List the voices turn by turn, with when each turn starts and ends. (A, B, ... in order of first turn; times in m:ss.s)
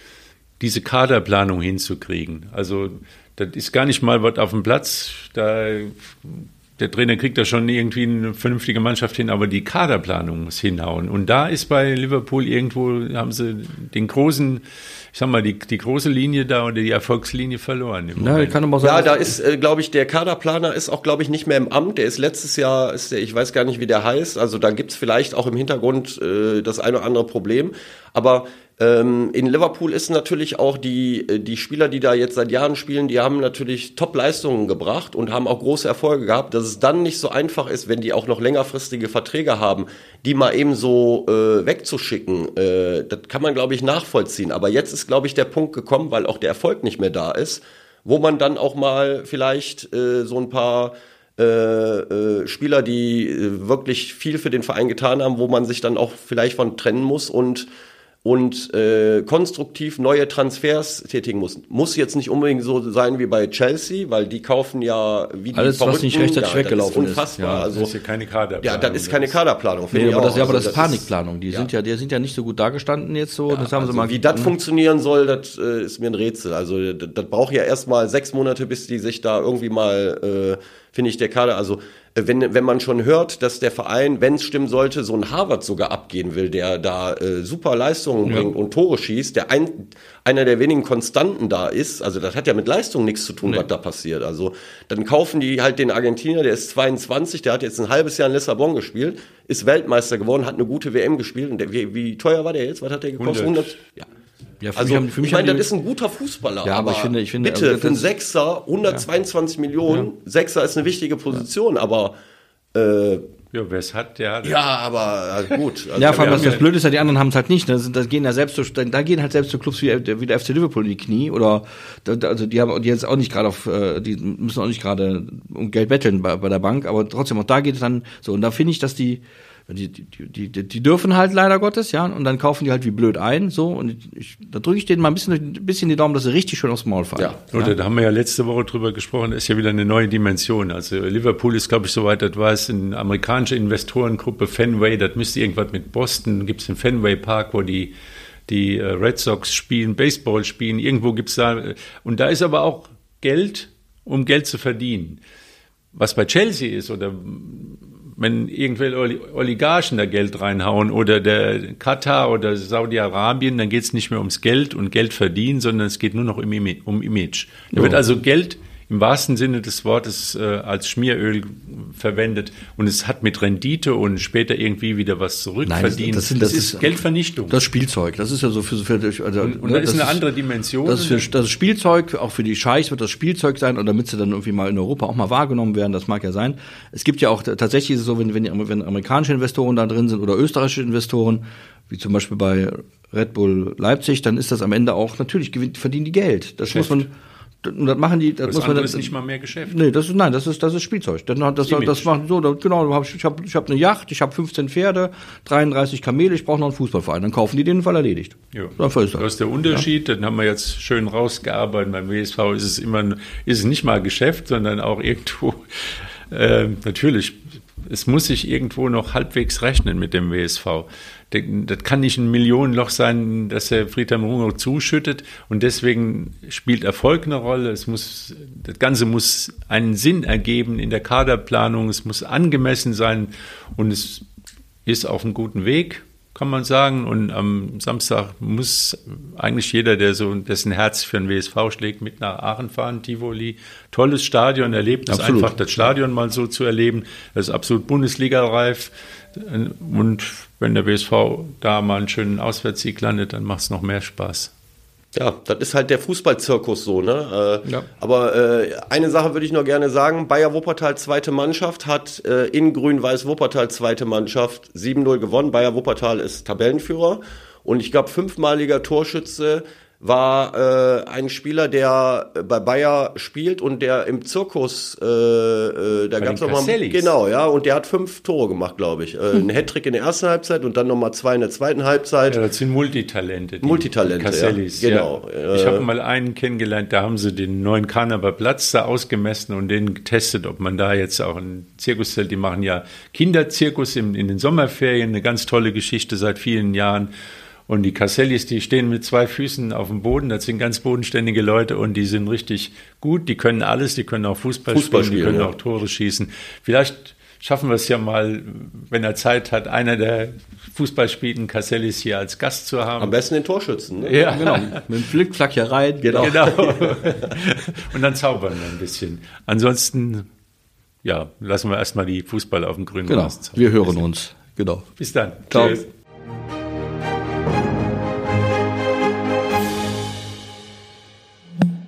0:00.6-0:18.6 A
0:18.2-0:19.4 B
0:18.8-0:57.7 C
0:58.2-1:07.9 C
1:05.5-1:07.7 B
1:07.7-1:09.4 A
1:08.6-1:11.7 C
1:09.9-1:14.5 B
1:13.5-1:44.1 C
1:28.2-1:28.5 B
1:43.2-1:43.8 A
1:44.6-1:45.7 B
1:44.8-1:52.2 C
1:46.6-1:48.1 B
1:52.7-1:53.2 C
1:53.5-1:54.6 A
1:54.4-1:56.6 C
1:56.0-2:17.8 B
1:56.0-1:56.6 A
2:17.5-2:27.9 A
2:28.5-2:35.2 A
2:36.0-2:57.6 A
2:47.7-2:48.0 B
2:55.6-3:00.2 B
2:59.4-3:01.3 A
3:00.8-3:17.1 B
3:16.7-3:17.0 A
3:17.6-3:19.1 B
3:18.4-3:19.8 A
3:19.7-3:29.8 B
3:21.6-3:22.1 A
3:28.5-3:54.2 A
3:54.9-4:14.5 A
4:05.1-4:05.5 B
4:15.1-4:42.4 C
4:36.2-4:37.1 A
4:42.3-4:57.1 A
4:43.6-4:45.9 C
4:57.7-5:13.2 A
5:04.7-5:05.5 C
5:13.0-5:14.2 C
5:14.0-5:14.8 A
5:14.3-5:16.5 B
5:16.1-5:20.3 A
5:16.3-5:17.0 C
5:21.0-5:24.0 A
5:23.1-5:24.9 B
5:25.0-5:25.8 A
5:25.5-5:25.8 B